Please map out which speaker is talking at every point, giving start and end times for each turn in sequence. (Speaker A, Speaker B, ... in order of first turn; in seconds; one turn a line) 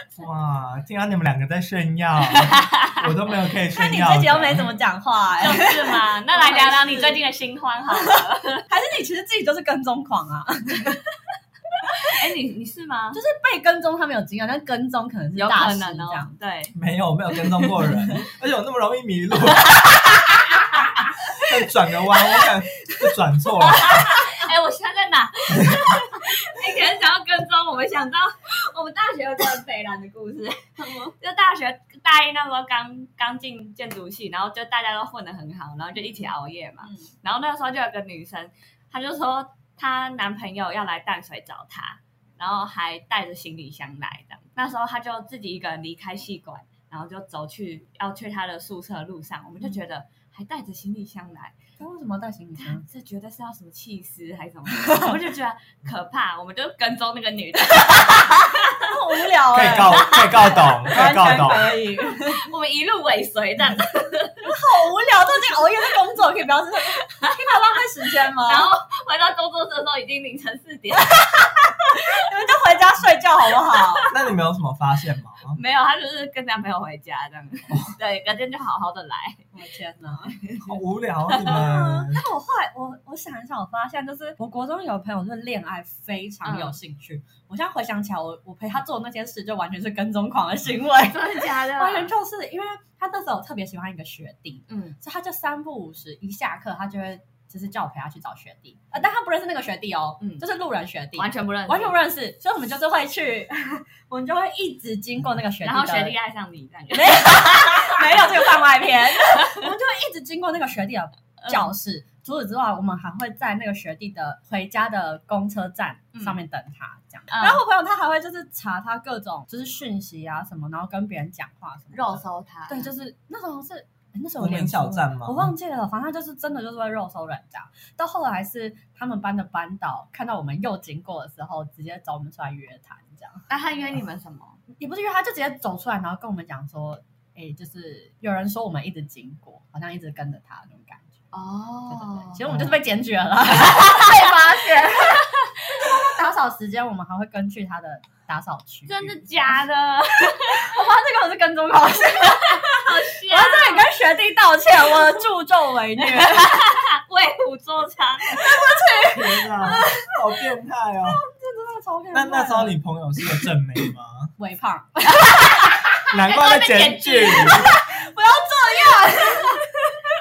Speaker A: 0.2-4.7
Speaker B: 3.7-7.2
Speaker C: 5.4-8.7
Speaker B: 7.9-11.1
Speaker B: 11.8-12.2
Speaker C: 12.0-13.2
Speaker B: 13.1-16.3
Speaker C: 15.3-16.8
Speaker A: 16.8-20.3
Speaker C: 20.8-21.4
Speaker A: 21.3-24.1
Speaker C: 22.2-22.9
Speaker C: 23.5-51.6
Speaker B: 30.8-31.1
Speaker B: 36.8-37.1
Speaker B: 51.8-52.9
Speaker C: 52.6-58.9
Speaker B: 54.7-55.2
Speaker B: 58.8-62.4
Speaker A: 59.5-61.8
Speaker C: 59.8-60.7
Speaker C: 62.1-64.5
Speaker B: 64.4-68.7
Speaker C: 67.1-67.5
Speaker C: 68.5-71.3
Speaker B: 71.0-74.1
Speaker C: 74.0-74.3
Speaker A: 74.1-75.6
Speaker C: 75.5-79.5
Speaker B: 79.5-80.4
Speaker C: 80.3-80.8
Speaker A: 80.6-82.2
Speaker B: 81.4-106.2
Speaker C: 86.4-86.8
Speaker C: 91.0-92.1
Speaker C: 94.7-95.0
Speaker C: 100.2-100.5
Speaker C: 101.2-102.0
Speaker C: 105.6-108.6
Speaker B: 106.9-133.4
Speaker C: 109.2-109.6
Speaker C: 111.4-111.7
Speaker C: 116.1-116.4
Speaker C: 117.3-117.6
Speaker C: 121.9-122.9
Speaker A: 124.4-125.5
Speaker C: 133.5-134.6
Speaker B: 134.8-141.2
Speaker C: 141.3-142.5
Speaker B: 141.9-149.6
Speaker A: 142.5-142.7
Speaker C: 148.9-150.8
Speaker B: 150.4-156.7
Speaker C: 152.4-153.9
Speaker C: 154.9-155.2
Speaker C: 156.1-158.5
Speaker B: 158.3-160.2
Speaker A: 159.1-161.2
Speaker B: 161.0-162.8
Speaker A: 162.1-164.3
Speaker B: 164.4-165.9
Speaker C: 166.0-167.7
Speaker A: 166.1-167.7
Speaker B: 167.3-169.6
Speaker C: 169.4-169.7